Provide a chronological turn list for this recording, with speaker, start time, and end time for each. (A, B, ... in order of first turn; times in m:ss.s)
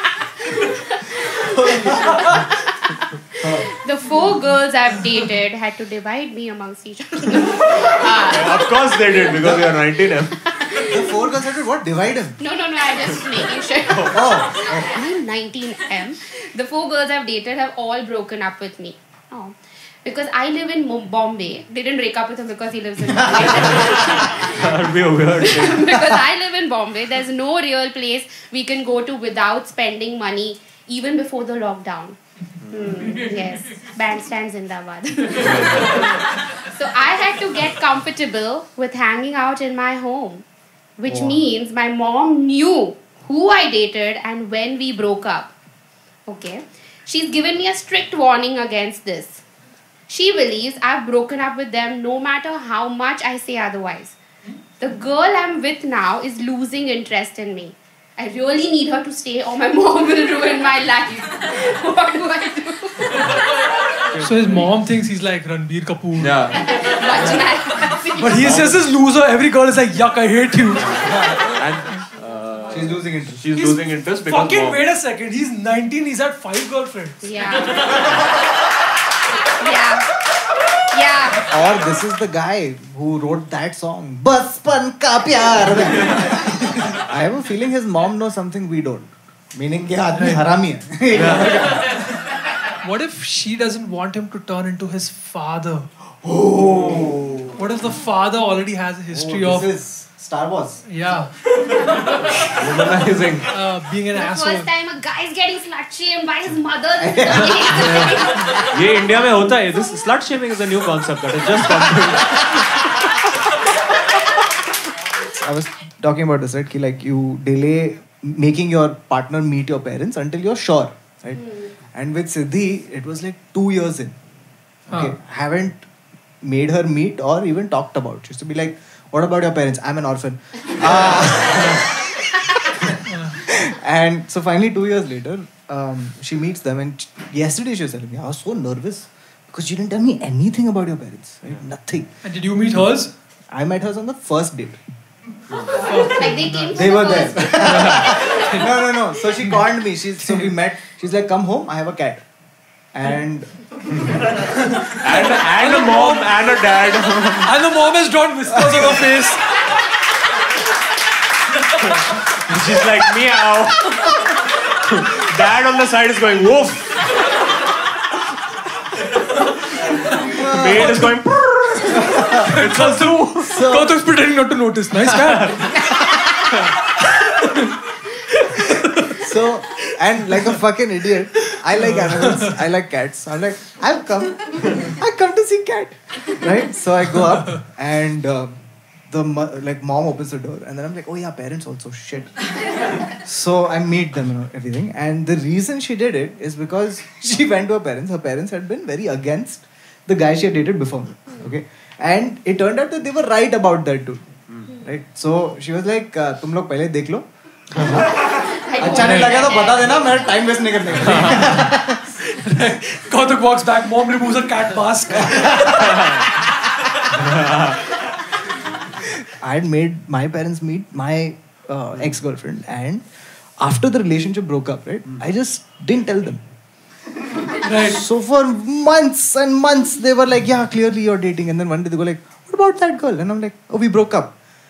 0:00.4-0:08.7 A
0:01.3-0:02.4 B
0:03.4-0:03.7 B
0:08.2-0:10.4 C
0:09.4-0:09.7 B
0:10.5-0:11.1 A
0:10.8-0:12.4 B
0:12.4-0:24.9 A
0:13.9-0:14.2 C
0:14.1-0:15.0 B
0:23.1-0:23.7 B
0:23.9-0:26.1 C
0:25.4-0:32.2 A
0:32.6-0:33.0 C
0:32.7-0:40.4 A
0:35.4-0:36.0 C
0:41.0-0:45.5 A
0:41.0-0:41.4 B
0:46.3-0:49.4 A
0:50.1-0:54.2 A
0:54.8-1:03.4 A
1:04.1-1:04.5 C
1:04.2-1:06.3 D
1:06.2-1:07.3 C
1:06.5-1:08.6 A
1:08.2-1:10.9 D
1:08.4-1:08.8 C
1:10.8-1:14.8 C
1:10.9-1:11.5 B
1:12.2-1:12.9 A
1:12.7-1:13.4 B
1:13.5-1:17.2 D
1:17.2-1:18.2 A
1:19.4-1:20.1 A
1:20.9-1:21.4 A
1:21.4-1:31.8 B
1:30.1-1:30.4 D
1:31.1-1:31.7 C
1:32.8-1:35.9 D
1:36.2-1:37.6 B
1:37.5-1:39.7 D
1:39.1-1:40.8 B
1:40.9-1:41.3 D
1:42.4-1:43.5 C
1:43.5-1:44.7 D
1:44.1-1:48.8 A
1:47.0-1:48.0 B
1:47.7-1:48.1 C
1:48.7-1:52.8 C
1:55.2-2:04.2 B
2:01.4-2:01.7 A
2:04.9-2:05.8 B
2:04.9-2:05.1 D
2:06.4-2:22.1 B
2:13.0-2:13.4 D
2:22.2-2:23.1 D
2:23.5-2:24.8 B
2:25.6-2:28.7 A
2:25.9-2:26.7 D
2:26.7-2:32.2 B
2:27.6-2:28.1 C
2:30.2-2:30.5 D
2:32.9-2:34.3 B
2:34.5-2:36.3 D
2:35.0-2:37.5 C
2:37.4-2:39.4 D
2:38.5-2:38.9 B
2:41.8-2:47.2 C
2:50.3-2:51.1 B
2:50.4-2:51.9 C
2:51.9-2:52.4 B
2:52.1-2:55.8 D
2:52.7-2:53.0 C
2:53.4-2:54.1 B
2:57.0-2:59.2 D
2:59.1-3:32.1 B
3:01.5-3:02.6 D
3:27.8-3:30.5 A
3:28.9-3:29.4 D
3:31.0-3:31.5 C
3:32.2-3:36.0 D
3:35.1-3:35.9 B
3:35.8-3:36.3 C
3:37.1-3:37.8 C
3:39.0-3:43.0 B
3:43.6-3:46.4 B
3:47.6-3:48.0 D
3:47.6-3:54.3 B